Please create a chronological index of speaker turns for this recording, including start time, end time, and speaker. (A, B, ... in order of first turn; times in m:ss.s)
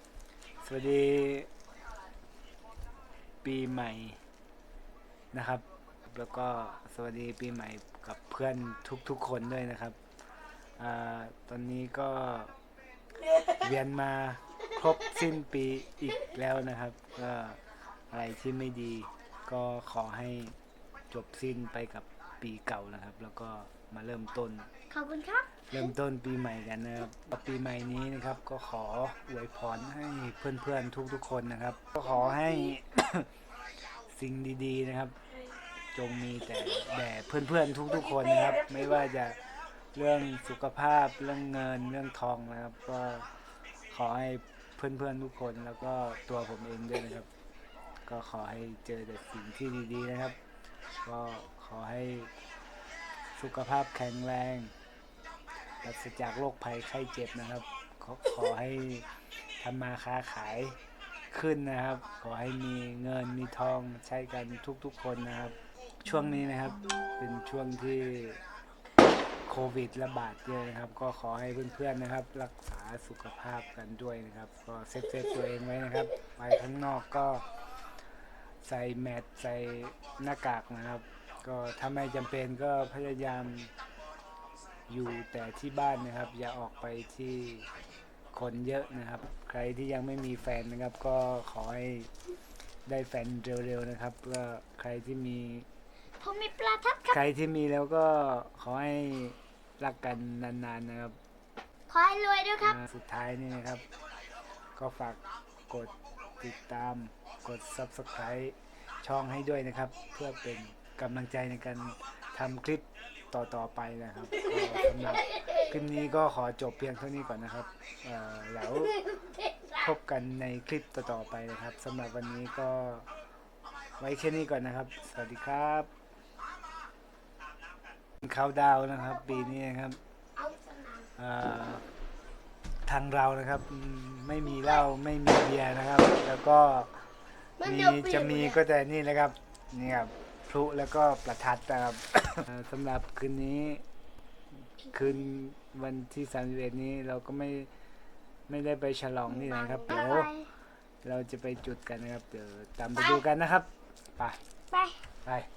0:00.6-0:01.5 A
0:03.4-0:04.2 A
0:05.3-0:10.0 A
0:10.8-0:12.5 A
0:13.4-0:20.6 A
0:21.1-0:24.7 A
0:24.9-0:25.5 B
0:25.7-0:33.3 A
0:34.0-0:35.2 A
0:35.9-0:43.3 A
0:43.9-0:47.3 A
0:48.0-0:50.4 A
0:51.0-0:52.3 A
0:53.3-0:54.7 A
0:55.8-1:00.8 A
1:01.3-1:08.4 A
1:09.4-1:17.4 A
1:18.6-1:23.7 A
1:24.9-1:27.7 A
1:28.3-1:32.1 A
1:32.8-1:35.7 A
1:36.2-1:37.2 B
1:37.1-1:41.2 A
1:41.9-1:42.8 B
1:42.6-1:43.8 A
1:44.8-1:59.0 A
1:59.0-1:59.7 B
1:59.8-2:03.1 A
2:04.0-2:05.9 A
2:08.2-2:10.0 A
2:10.4-2:11.1 B
2:11.2-2:11.9 A
2:12.8-2:23.8 A
2:17.6-2:18.6 B
2:24.8-2:27.7 A
2:28.5-2:30.5 A
2:29.4-2:30.5 B
2:31.0-2:34.4 A
2:34.7-2:35.0 B
2:35.2-2:35.5 A